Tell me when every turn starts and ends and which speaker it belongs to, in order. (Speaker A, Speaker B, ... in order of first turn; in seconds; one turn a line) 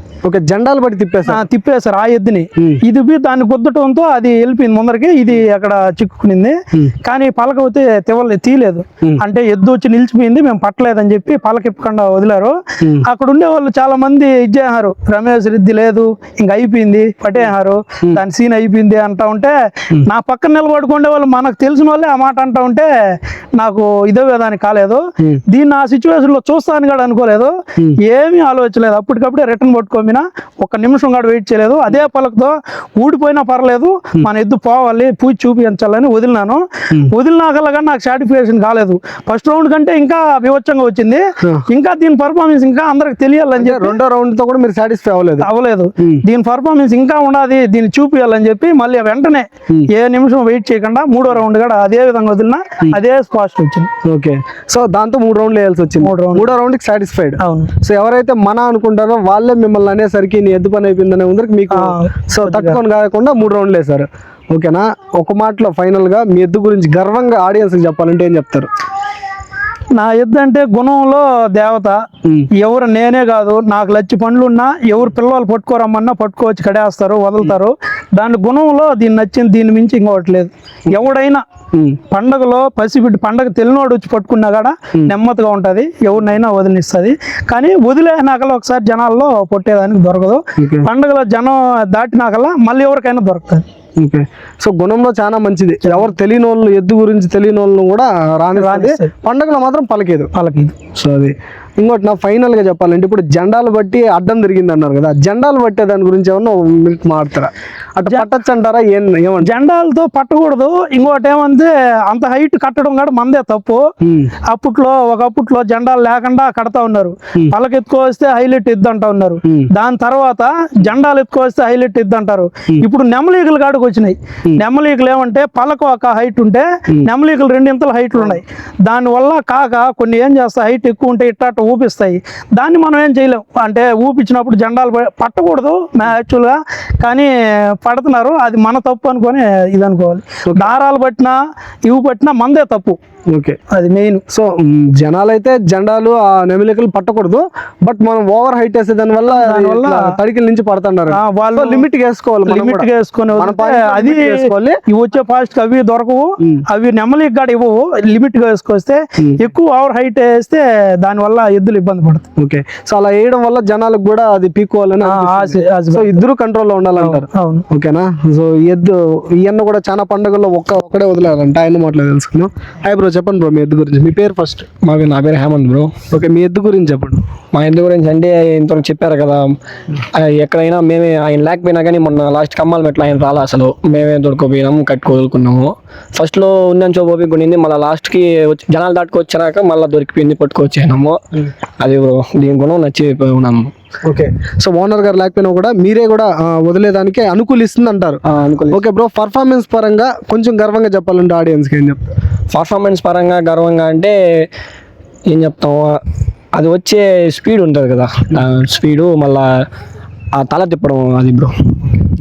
Speaker A: 0.2-1.4
Speaker B: 1.3-44.0
Speaker A: 43.6-45.5
Speaker B: 45.4-53.9
Speaker A: 54.0-68.7
Speaker B: 56.0-56.5
Speaker B: 57.4-57.7
Speaker B: 61.7-62.8
Speaker B: 70.0-72.0
Speaker B: 72.6-81.4
Speaker B: 82.1-93.7
Speaker A: 90.6-90.9
Speaker A: 94.0-100.3
Speaker B: 95.8-96.1
Speaker B: 98.6-99.1
Speaker B: 100.3-100.8
Speaker A: 101.0-109.5
Speaker B: 109.4-113.9
Speaker A: 114.0-114.3
Speaker B: 114.5-143.0
Speaker A: 143.3-143.6
Speaker B: 143.7-144.2
Speaker A: 144.3-154.8
Speaker B: 149.3-150.2
Speaker B: 151.1-151.9
Speaker B: 152.5-162.3
Speaker A: 162.4-174.7
Speaker B: 165.1-166.2
Speaker B: 167.0-167.7
Speaker C: 174.8-175.9
Speaker A: 176.1-177.2
Speaker C: 177.5-179.6
Speaker C: 180.1-191.2
Speaker C: 191.8-193.7
Speaker A: 194.1-202.1
Speaker C: 198.3-198.8
Speaker C: 202.5-204.2
Speaker C: 205.3-206.0
Speaker C: 206.5-209.5
Speaker C: 210.3-212.0